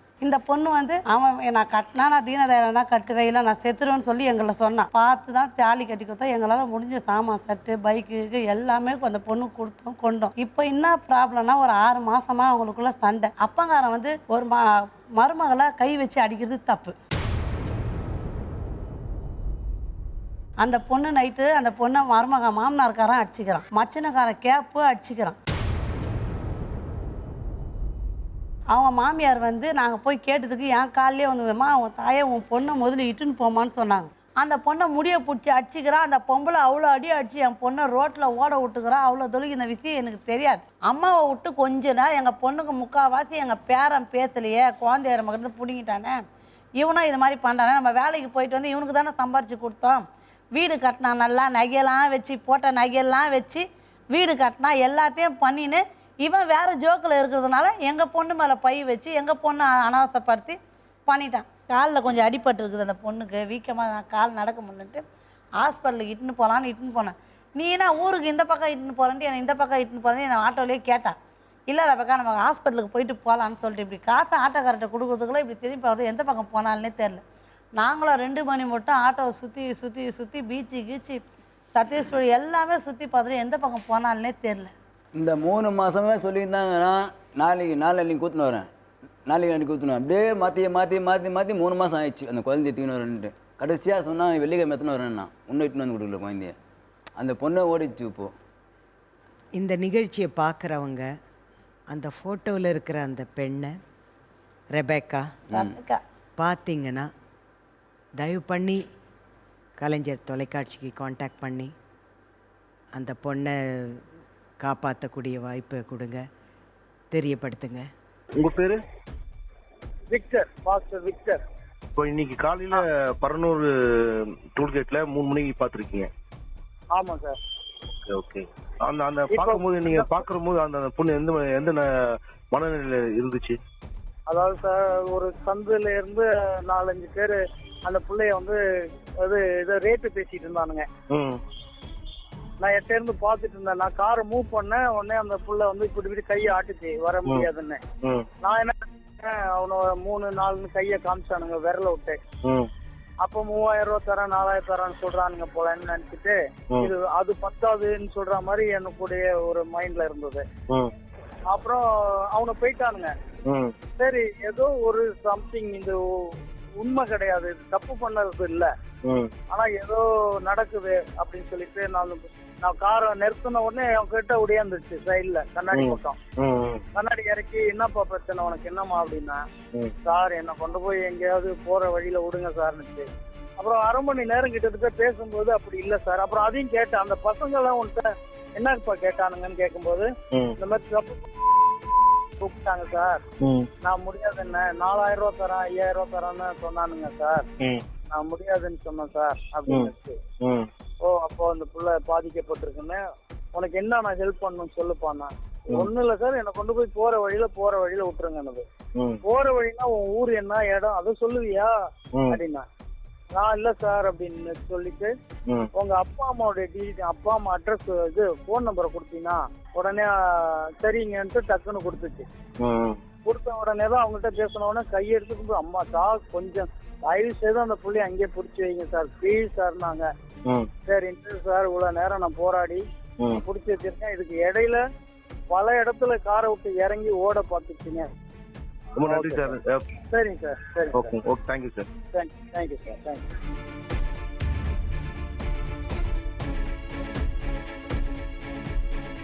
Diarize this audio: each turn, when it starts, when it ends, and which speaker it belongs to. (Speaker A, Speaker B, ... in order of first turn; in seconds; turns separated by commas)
Speaker A: 0.2-14.7, Speaker A: 15.2-16.9, Speaker A: 20.6-25.4, Speaker A: 28.7-46.2, Speaker A: 46.8-50.0, Speaker A: 50.5-65.0, Speaker A: 65.6-71.2, Speaker A: 71.7-77.2, Speaker A: 77.8-81.2, Speaker A: 81.7-84.7, Speaker B: 85.1-88.7, Speaker B: 89.2-96.5, Speaker B: 97.2-98.3, Speaker C: 99.5-101.1, Speaker C: 101.9-103.7, Speaker C: 104.7-105.4, Speaker A: 105.5-106.0, Speaker C: 106.4-107.1, Speaker C: 108.2-108.8, Speaker C: 109.8-111.7, Speaker C: 113.0-114.0, Speaker C: 114.6-116.2, Speaker C: 117.1-117.8, Speaker D: 118.4-118.8, Speaker E: 120.1-121.4, Speaker D: 122.0-123.7, Speaker D: 124.5-126.1, Speaker E: 126.9-127.4, Speaker D: 128.1-131.9, Speaker E: 129.3-130.2, Speaker D: 132.5-133.6, Speaker E: 134.3-138.6, Speaker E: 139.2-140.9, Speaker D: 141.1-141.4, Speaker E: 142.6-147.8, Speaker E: 148.4-152.2, Speaker E: 153.2-160.4, Speaker E: 161.5-163.1, Speaker D: 163.5-163.7, Speaker E: 164.0-168.7, Speaker D: 169.0-169.3, Speaker E: 169.5-176.2, Speaker D: 175.7-176.8, Speaker E: 176.9-179.4, Speaker E: 180.0-183.1, Speaker E: 183.6-191.2, Speaker E: 192.4-193.2, Speaker D: 193.4-193.7, Speaker E: 193.8-197.4, Speaker E: 198.1-200.2, Speaker D: 200.4-200.7, Speaker E: 201.0-203.0, Speaker E: 203.5-208.6, Speaker E: 209.2-211.7, Speaker E: 212.3-212.6, Speaker E: 213.3-215.1, Speaker E: 215.7-222.2, Speaker D: 222.6-223.0, Speaker E: 223.2-230.1, Speaker E: 230.8-232.8, Speaker E: 233.3-234.8, Speaker E: 235.5-238.1, Speaker D: 238.9-239.8, Speaker E: 239.1-239.6, Speaker E: 240.1-241.2, Speaker D: 240.9-241.9, Speaker E: 242.1-243.2